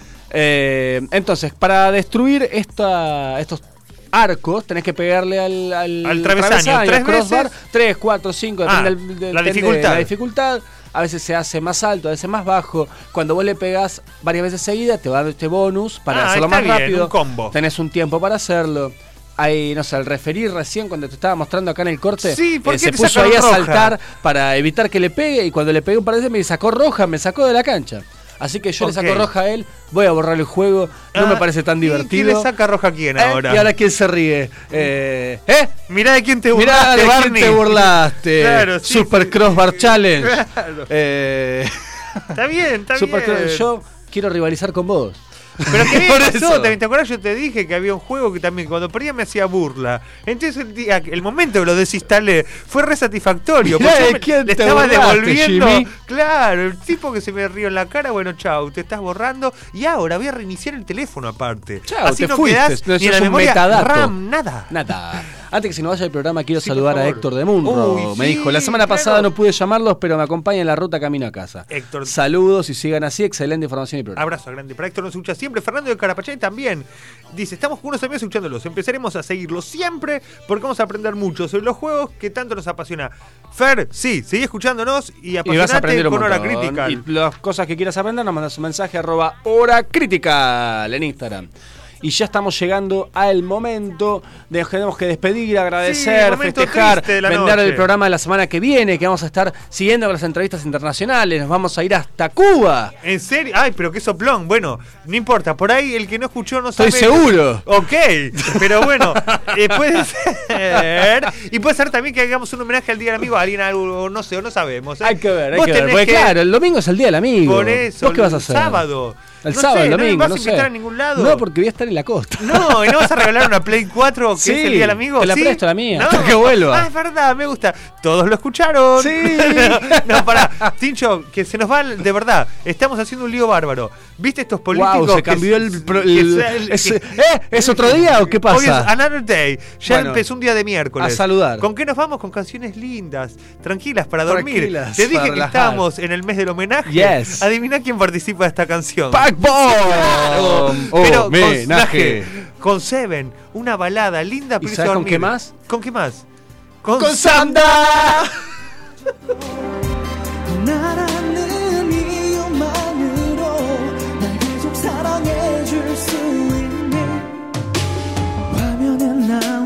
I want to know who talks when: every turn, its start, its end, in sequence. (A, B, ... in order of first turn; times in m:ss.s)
0:00.3-0:32.5 A
0:06.0-0:07.5 B
0:08.7-0:10.1 B
0:16.1-0:17.5 B
0:22.2-0:24.0 B
0:28.8-0:29.3 B
0:31.2-0:33.7 B
0:33.2-0:35.8 A
0:35.9-0:40.9 B
0:36.5-0:42.3 A
0:42.3-0:43.7 B
0:42.9-0:46.8 A
0:45.6-1:04.7 B
0:53.6-0:55.9 A
1:01.9-1:04.1 A
1:04.7-1:14.2 A
1:06.6-1:09.3 B
1:11.7-1:12.1 B
1:14.2-1:27.0 B
1:25.4-1:31.5 A
1:32.0-1:42.9 A
1:35.8-1:37.9 B
1:43.0-1:56.4 B
1:46.8-1:47.7 A
1:48.4-1:50.0 A
1:50.8-1:51.0 A
1:55.0-1:58.8 A
1:57.4-2:01.4 B
1:59.4-2:03.3 A
2:02.4-2:29.3 B
2:04.4-2:06.9 A
2:09.0-2:10.7 A
2:14.7-2:18.9 A
2:19.9-2:20.2 A
2:21.0-2:21.7 A
2:24.3-2:25.8 A
2:26.9-2:27.5 A
2:29.1-2:32.3 A
2:29.9-2:36.2 B
2:34.6-2:35.5 A
2:36.8-2:37.9 B
2:37.0-2:38.3 A
2:40.6-2:41.2 B